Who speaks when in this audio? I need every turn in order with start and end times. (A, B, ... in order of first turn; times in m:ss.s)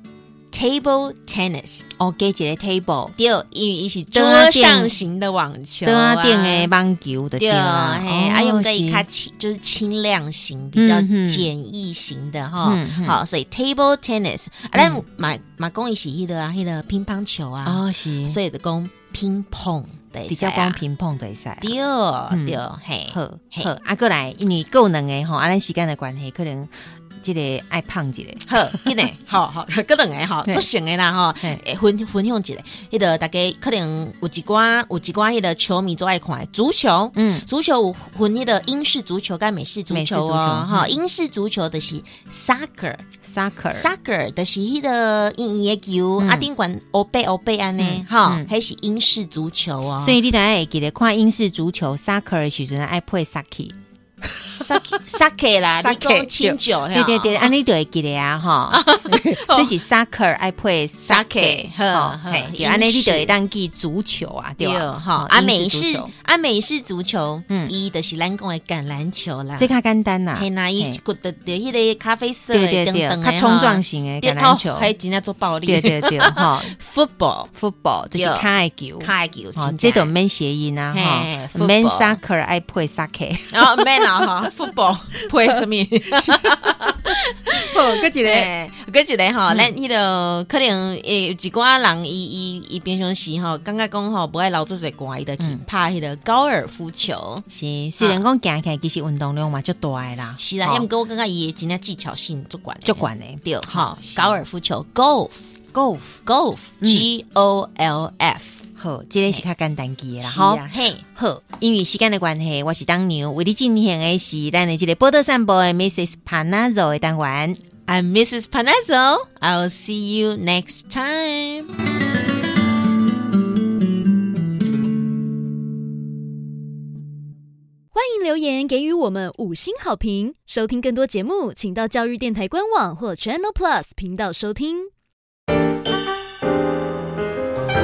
0:00.5-0:01.8 A
0:02.0-0:03.1 B
0:03.2-0:06.7 A
0:04.1-0:04.9 B
0:05.8-0:09.1 B
0:07.4-0:20.8 A
0:10.8-0:11.5 B
0:12.6-0:13.2 B
0:14.8-0:15.0 B
0:17.6-0:18.4 B
0:20.3-0:21.8 B
0:21.6-0:23.7 A
0:22.3-0:29.1 B
0:28.5-0:43.0 A
0:37.2-0:37.4 B
0:39.9-0:41.0 B
0:43.2-0:43.9 B
0:43.7-0:50.2 A
0:46.2-0:46.5 B
0:47.8-0:48.5 B
0:50.0-0:53.8 B
0:54.5-0:57.5 A
0:54.6-0:55.0 B
0:55.8-1:06.1 B
0:58.7-0:59.7 A
1:01.0-1:03.3 A
1:04.6-1:09.7 A
1:09.6-1:11.0 B
1:10.4-1:17.5 A
1:12.5-1:14.9 B
1:15.7-1:16.7 B
1:17.5-1:24.3 B
1:18.2-1:18.5 A
1:19.0-1:20.1 A
1:20.9-1:22.2 A
1:23.5-1:37.4 A
1:26.2-1:28.5 B
1:37.5-1:40.9 B
1:40.4-1:45.5 A
1:42.8-1:44.4 B
1:45.7-1:46.2 B
1:46.3-1:48.6 A
1:46.8-1:47.1 B
1:48.8-1:57.6 B
1:50.2-1:51.0 A
1:57.9-2:01.7 A
2:08.0-2:14.9 C